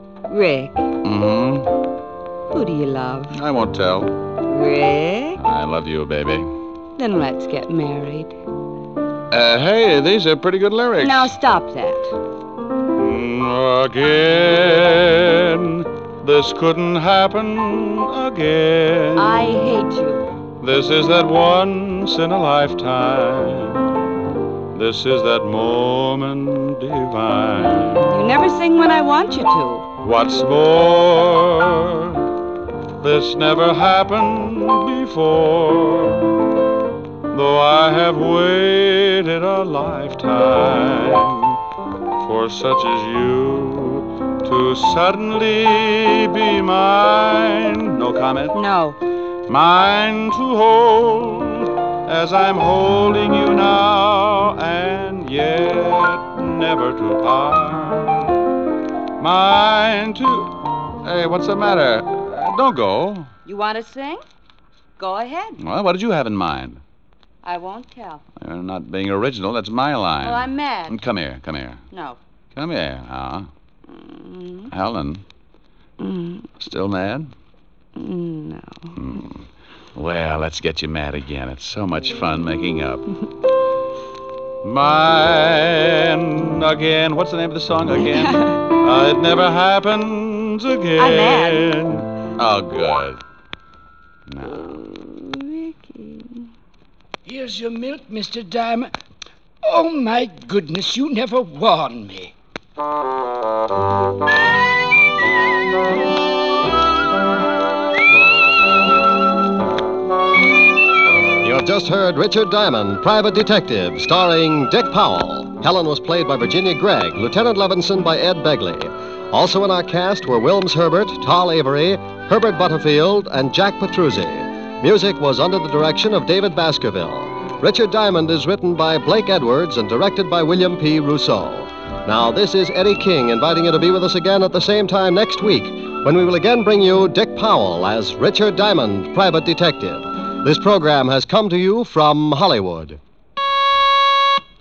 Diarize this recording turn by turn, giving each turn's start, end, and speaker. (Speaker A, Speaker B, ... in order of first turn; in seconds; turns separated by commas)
Speaker A: 0.3-0.9, Speaker B: 1.0-1.7, Speaker A: 2.5-3.3, Speaker B: 3.3-4.1, Speaker A: 4.5-5.4, Speaker B: 5.4-6.5, Speaker A: 7.0-8.3, Speaker B: 9.3-11.3, Speaker A: 11.0-12.1, Speaker B: 13.0-19.4, Speaker A: 19.1-20.2, Speaker B: 20.6-23.9, Speaker B: 24.7-28.0, Speaker A: 27.6-29.9, Speaker B: 30.0-32.2, Speaker B: 33.0-36.3, Speaker B: 37.3-41.6, Speaker B: 42.2-48.5, Speaker A: 48.5-49.0, Speaker B: 49.5-58.3, Speaker B: 59.2-63.3, Speaker A: 63.5-64.2, Speaker A: 65.0-65.6, Speaker B: 65.6-66.8, Speaker A: 67.4-68.2, Speaker B: 68.4-71.8, Speaker A: 70.2-71.0, Speaker A: 71.9-72.2, Speaker B: 72.5-73.5, Speaker A: 73.9-74.7, Speaker B: 74.7-75.2, Speaker A: 76.0-76.5, Speaker B: 76.6-77.3, Speaker A: 78.0-79.0, Speaker B: 79.0-79.4, Speaker B: 80.0-83.0, Speaker B: 84.6-93.2, Speaker A: 91.0-91.8, Speaker B: 94.3-94.6, Speaker A: 94.4-96.5, Speaker C: 97.2-98.9, Speaker C: 99.6-102.3, Speaker D: 111.4-143.0